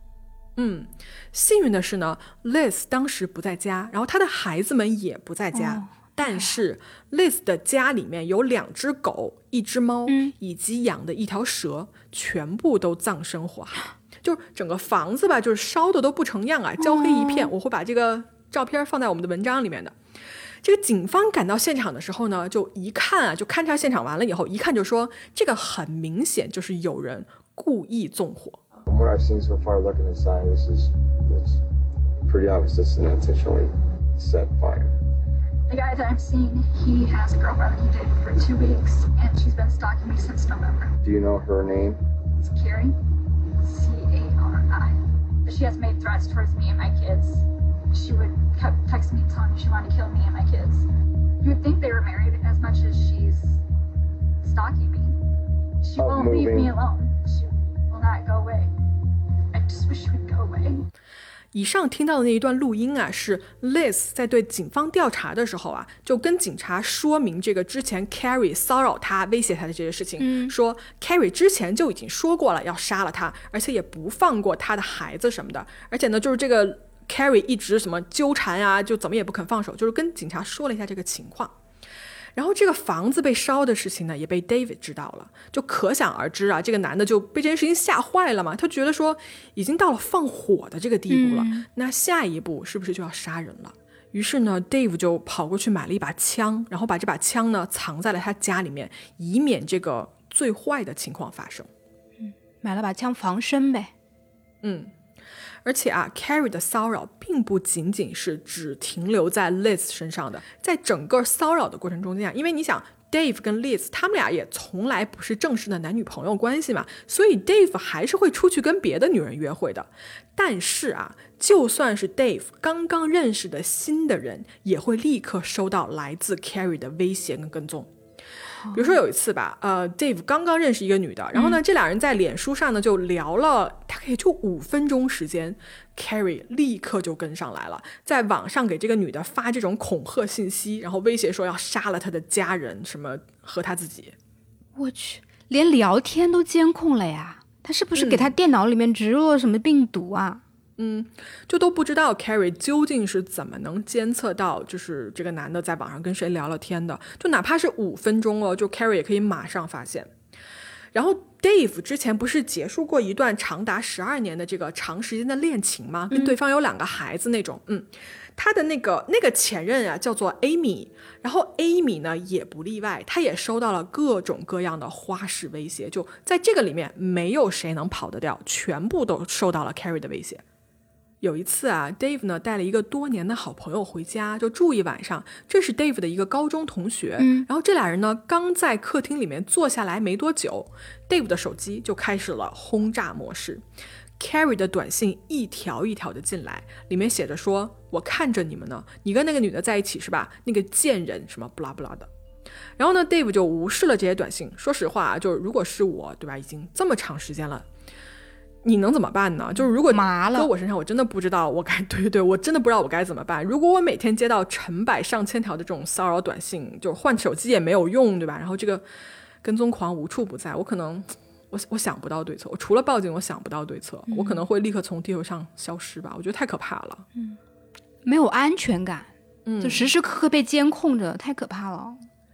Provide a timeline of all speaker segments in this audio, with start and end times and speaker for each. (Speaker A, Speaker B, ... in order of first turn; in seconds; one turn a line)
Speaker A: 0.6-19.9
Speaker B: 5.5-6.6
Speaker B: 10.1-10.3
Speaker B: 16.8-17.5
Speaker A: 20.6-28.6
Speaker C: 28.9-31.6
Speaker C: 32.2-34.9
Speaker D: 35.7-41.0
Speaker C: 41.0-42.0
Speaker D: 42.3-50.9
Speaker D: 51.4-53.6
Speaker D: 54.4-55.2
Speaker D: 55.8-58.7
Speaker C: 56.0-56.7
Speaker D: 59.5-60.8
Speaker A: 61.5-81.5
Speaker B: 70.2-70.5
Speaker A: 82.3-101.7
Speaker B: 91.1-91.7
Speaker B: 102.2-103.9
Speaker A: 104.6-104.9
Speaker A: 105.6-127.9
Speaker B: 128.6-129.0
Speaker A: 128.7-144.1
Speaker B: 131.3-131.6
Speaker B: 144.8-150.4
Speaker A: 147.9-148.3
Speaker A: 150.8-160.1
Speaker A: 160.9-180.4
Speaker B: 166.1-166.3
Speaker A: 181.2-193.6
Speaker B: 187.2-187.5
Speaker A: 194.2-202.1
Speaker A: 202.8-207.6
Speaker A: 208.6-218.8
Speaker B: 209.6-210.5
Speaker A: 219.4-227.0
Speaker B: 224.1-224.4
Speaker B: 228.0-229.1
Speaker A: 229.4-229.9
Speaker B: 229.6-232.0